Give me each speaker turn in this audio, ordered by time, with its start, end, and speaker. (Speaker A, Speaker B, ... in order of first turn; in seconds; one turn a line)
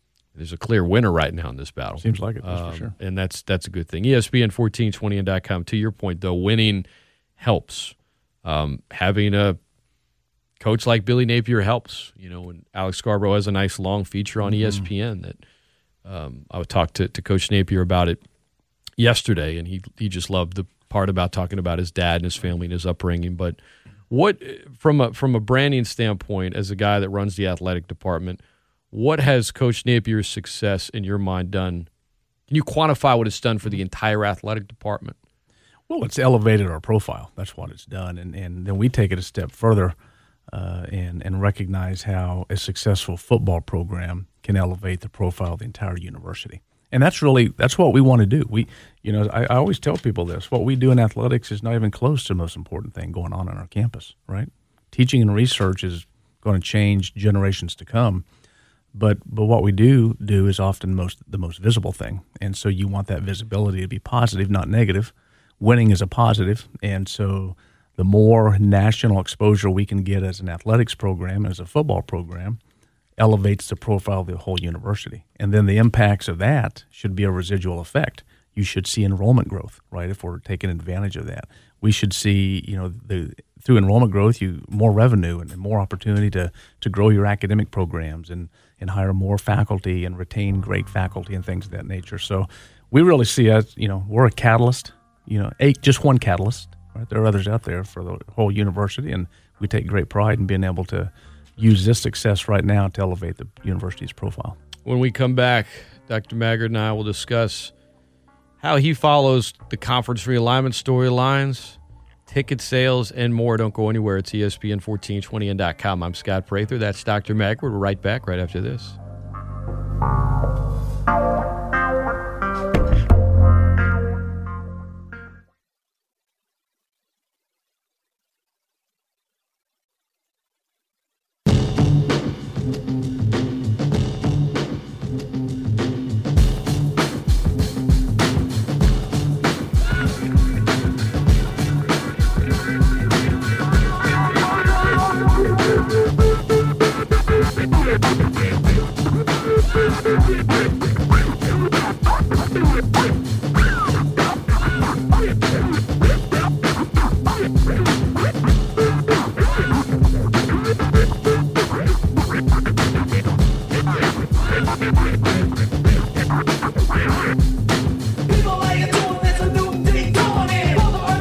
Speaker A: 0.3-6.8
Speaker B: 2.0-2.9
Speaker A: 7.4-9.6
Speaker A: 10.6-15.4
Speaker B: 14.6-14.8
Speaker A: 16.1-18.2
Speaker A: 19.0-23.6
Speaker A: 24.1-31.9
Speaker A: 32.5-35.2
Speaker B: 35.9-40.0
Speaker B: 40.5-58.2
Speaker B: 58.9-72.6
Speaker B: 73.2-104.6
Speaker A: 104.8-107.7
Speaker A: 108.6-119.0
Speaker A: 170.3-170.7